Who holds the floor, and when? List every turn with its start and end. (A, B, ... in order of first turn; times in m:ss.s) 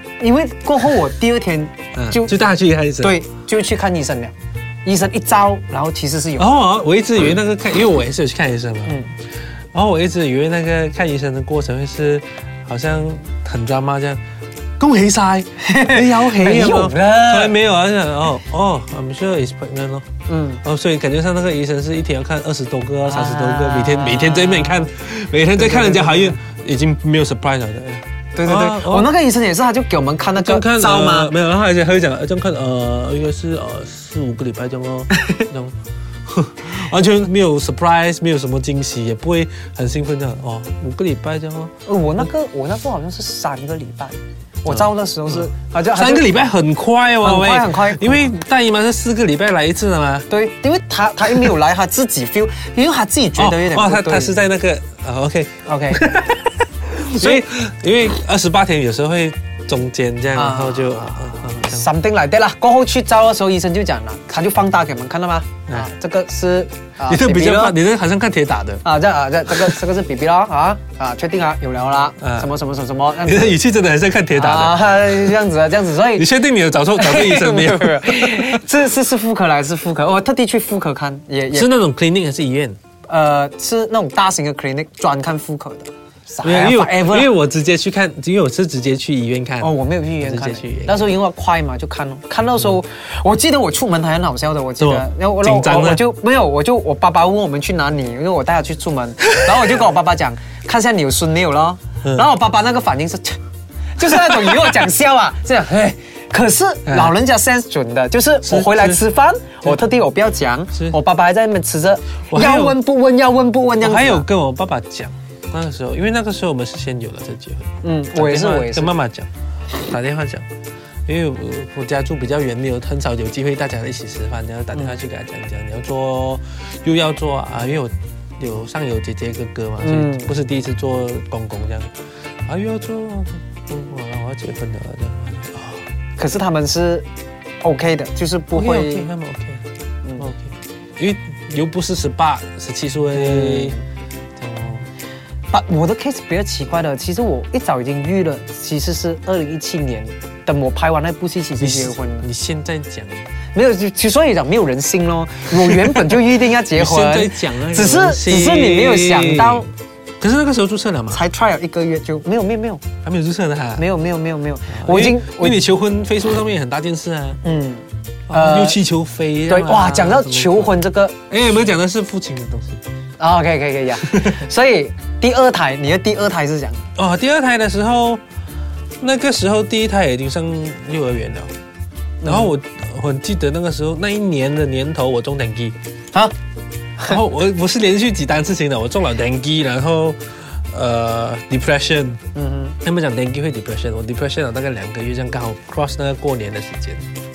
0:00.2-0:02.4 A
0:01.9-0:03.2 B
0:03.0-0:06.6 A
0:06.4-0:09.0 B
0:08.9-0:09.1 A
0:09.7-0:14.2 B
0:14.8-0:20.1 B
0:15.6-0:17.6 A
0:20.3-0:20.6 A
0:20.6-0:29.1 B
0:23.0-0:24.9 A
0:25.6-0:26.4 A
0:28.3-0:31.3 A
0:30.4-0:41.7 B
0:41.8-0:46.5 A
0:44.7-0:50.3 B
0:47.2-0:48.4 A
0:50.3-0:54.4 A
0:53.4-1:01.9 B
0:55.6-0:56.2 A
0:57.2-0:57.4 A
1:00.3-1:07.8 A
1:07.0-1:08.8 B
1:08.8-1:13.6 A
1:12.2-1:12.6 B
1:13.2-1:15.2 B
1:14.3-1:16.3 A
1:16.0-1:18.6 B
1:16.9-1:21.7 A
1:21.5-1:22.8 B
1:23.1-1:27.3 A
1:26.4-1:31.1 B
1:29.6-1:43.4 A
1:34.8-1:36.0 B
1:44.0-1:54.2 A
1:46.9-1:47.1 B
1:48.4-1:49.0 B
1:50.7-1:51.0 B
1:52.3-1:52.8 B
1:53.8-2:00.5 B
1:57.8-1:58.9 A
2:01.1-2:11.9 B
2:09.8-2:10.3 A
2:12.4-2:15.9 B
2:16.2-2:17.1 A
2:17.6-2:19.1 A
2:18.5-2:23.8 B
2:23.1-2:23.8 A
2:24.4-2:24.9 B
2:25.5-2:32.3 A
2:31.6-2:33.3 B
2:33.5-2:39.7 A
2:35.6-2:36.2 B
2:36.7-2:41.2 B
2:41.1-2:42.8 A
2:43.0-2:43.8 B
2:43.8-2:45.6 A
2:44.7-2:47.4 B
2:47.4-2:48.8 A
2:48.3-2:52.8 B
2:49.5-2:51.2 A
2:53.2-2:56.9 A
2:54.0-2:54.4 B
2:56.9-2:58.2 B
2:59.0-3:01.5 B
3:02.2-3:02.5 A
3:02.2-3:05.8 B
3:07.0-3:12.2 B
3:12.3-3:12.8 A
3:12.8-3:17.1 B